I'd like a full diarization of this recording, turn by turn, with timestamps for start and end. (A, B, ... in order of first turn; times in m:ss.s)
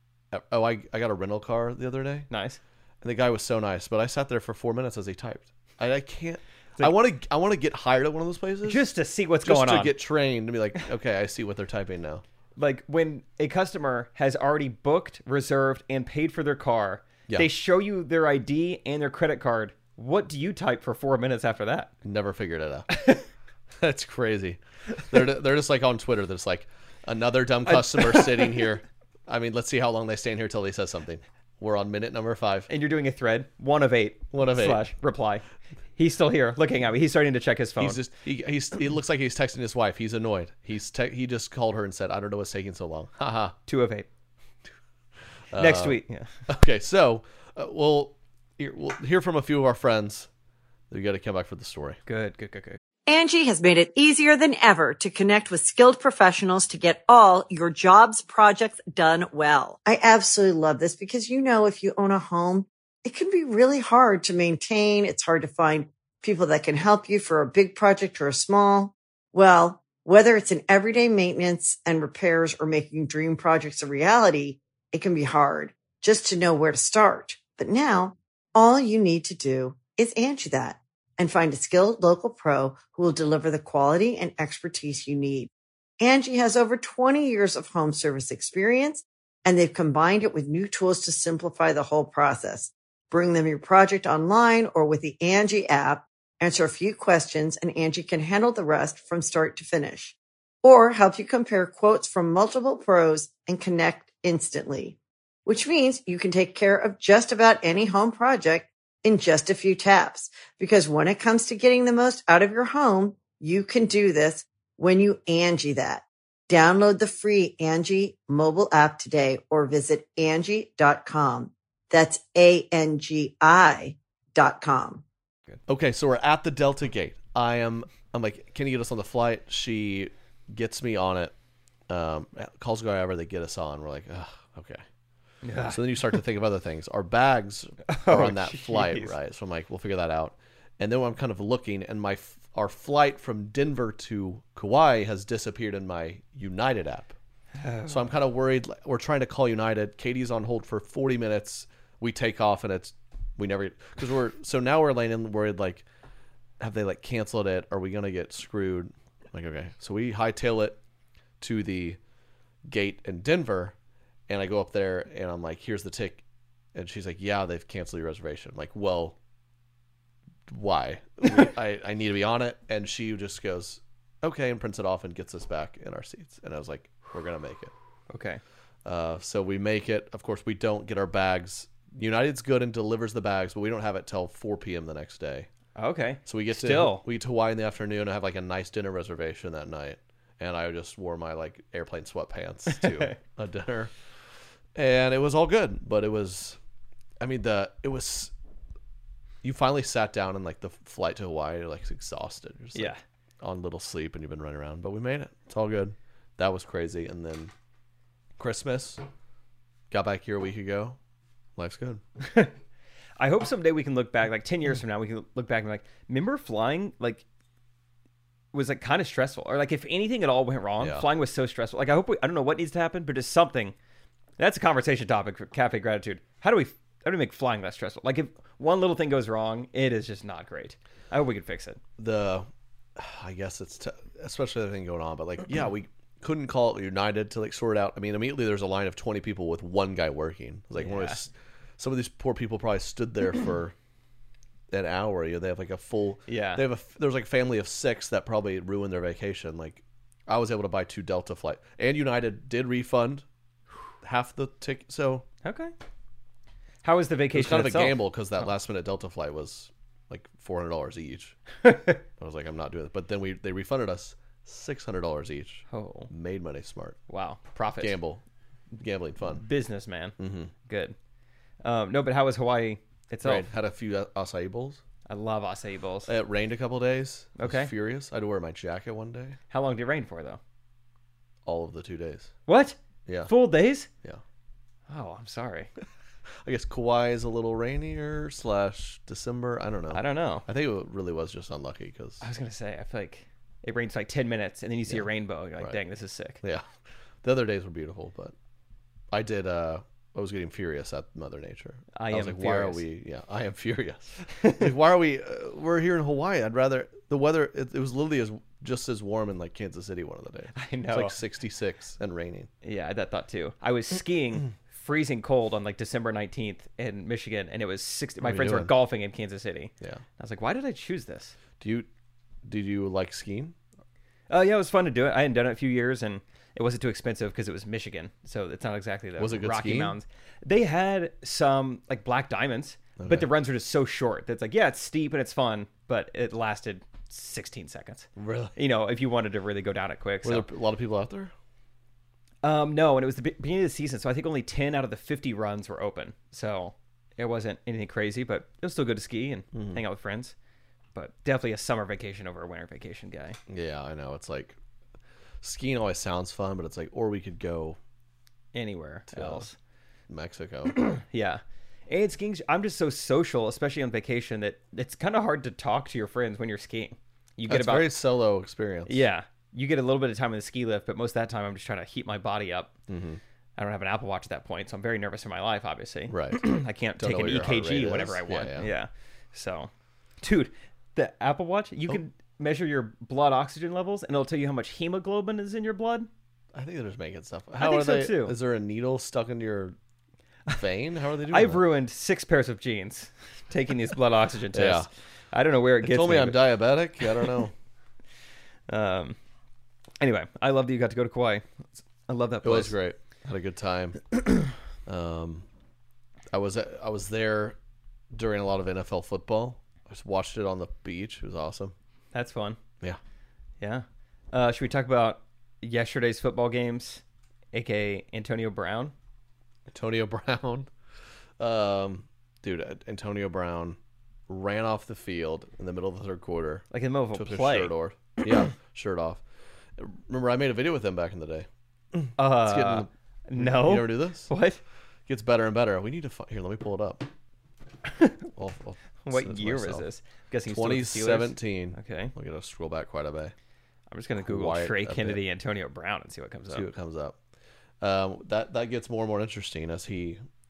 0:00.3-0:02.3 A
0:02.3-0:02.6 B
0:03.0-0:08.8 A
0:08.6-0:09.9 B
0:09.4-0:12.2 A
0:12.6-0:21.9 B
0:22.0-0:22.9 A
0:22.9-0:23.2 B
0:23.8-0:32.7 A
0:27.7-0:28.7 B
0:32.7-0:35.4 B
0:34.3-0:34.8 A
0:36.0-0:38.0 B
0:37.8-0:43.6 A
0:43.7-0:44.1 B
0:45.5-0:50.3 A
0:45.6-0:46.3 B
0:50.9-0:52.0 A
0:52.1-0:52.8 B
0:53.1-2:05.0 C
2:05.7-2:11.3 A
2:11.9-2:14.8 A
2:15.4-2:16.1 B
2:15.7-2:27.2 A
2:17.9-2:19.1 B
2:27.6-2:28.0 B
2:27.9-2:35.8 A
2:36.6-2:40.8 A
2:41.4-2:42.0 A
2:42.6-2:43.7 A
2:44.3-2:46.2 A
2:46.7-2:49.2 A
2:50.5-2:57.7 A
2:58.1-2:58.4 B
2:58.8-3:05.5 A
3:05.8-3:07.0 B
3:06.2-3:13.9 A
3:12.7-3:13.1 B
3:14.8-3:16.6 A
3:17.2-3:18.3 A
3:19.4-3:27.5 A
3:28.4-3:29.0 A
3:29.9-3:31.0 A
3:31.6-3:32.0 A
3:32.2-3:32.5 B
3:33.2-3:37.2 B
3:38.5-3:43.7 B
3:40.8-3:41.1 A
3:44.4-3:51.8 B
3:52.0-4:03.7 A
4:00.8-4:01.2 B
4:04.7-4:13.2 A
4:06.3-4:06.6 B
4:14.0-4:15.2 A
4:15.4-4:15.7 B
4:16.8-4:18.0 B
4:17.3-4:21.4 A
4:21.6-4:22.0 B
4:22.2-4:27.0 A
4:25.7-4:26.1 B
4:27.1-4:27.9 B
4:27.8-4:28.2 A
4:28.8-4:29.4 A
4:29.3-4:30.9 B
4:30.2-4:30.5 A
4:31.6-4:33.5 B
4:33.2-4:34.8 A
4:35.1-4:36.1 B
4:36.0-4:39.4 A
4:37.4-4:37.7 B
4:39.5-4:40.4 B
4:41.4-4:42.3 A
4:42.5-4:42.8 B
4:43.3-4:43.9 B
4:44.9-4:45.7 B
4:46.4-4:52.2 A
4:49.9-4:50.4 B
4:52.2-4:56.4 B
4:56.4-4:56.7 A
4:57.2-4:58.3 A
4:59.1-5:12.5 A
5:02.0-5:02.8 B
5:10.5-5:11.1 B
5:12.6-5:21.3 B
5:18.2-5:18.7 A
5:21.6-5:21.9 A
5:22.4-5:23.5 A
5:24.3-5:40.5 B
5:29.2-5:29.9 A
5:33.0-5:33.3 A
5:38.2-5:38.5 A
5:40.2-5:41.3 A
5:42.4-5:50.3 B
5:49.5-5:49.8 A
5:50.9-5:53.4 B
5:53.5-5:54.6 A
5:55.4-5:57.8 A
5:58.5-5:59.5 B
5:59.1-5:59.5 A
6:00.1-6:00.8 A
6:00.7-6:07.9 B
6:07.5-6:09.0 A
6:08.9-6:12.7 B
6:12.9-6:13.2 A
6:13.6-6:19.7 B
6:16.1-6:16.4 A
6:17.0-6:18.7 A
6:20.2-6:26.1 B
6:26.5-6:29.8 A
6:27.6-6:28.3 B
6:30.5-6:31.6 A
6:31.3-6:36.4 B
6:34.5-6:34.9 A
6:35.8-6:37.5 A
6:38.7-6:39.2 B
6:40.0-6:41.5 B
6:42.1-6:42.7 B
6:42.4-6:44.1 A
6:44.8-6:45.4 A
6:46.3-6:47.6 A
6:48.1-6:51.7 A
6:52.1-6:52.6 B
6:53.6-6:57.0 B
6:57.5-6:58.9 B
6:59.7-7:00.7 A
7:01.4-7:09.2 A
7:06.7-7:07.7 B
7:09.8-7:14.3 A
7:12.2-7:14.6 B
7:15.1-7:17.1 A
7:18.4-7:19.9 A
7:19.0-7:22.1 B
7:20.5-7:23.3 A
7:23.9-7:26.7 B
7:24.2-7:25.2 A
7:26.5-7:27.2 A
7:27.8-7:30.2 A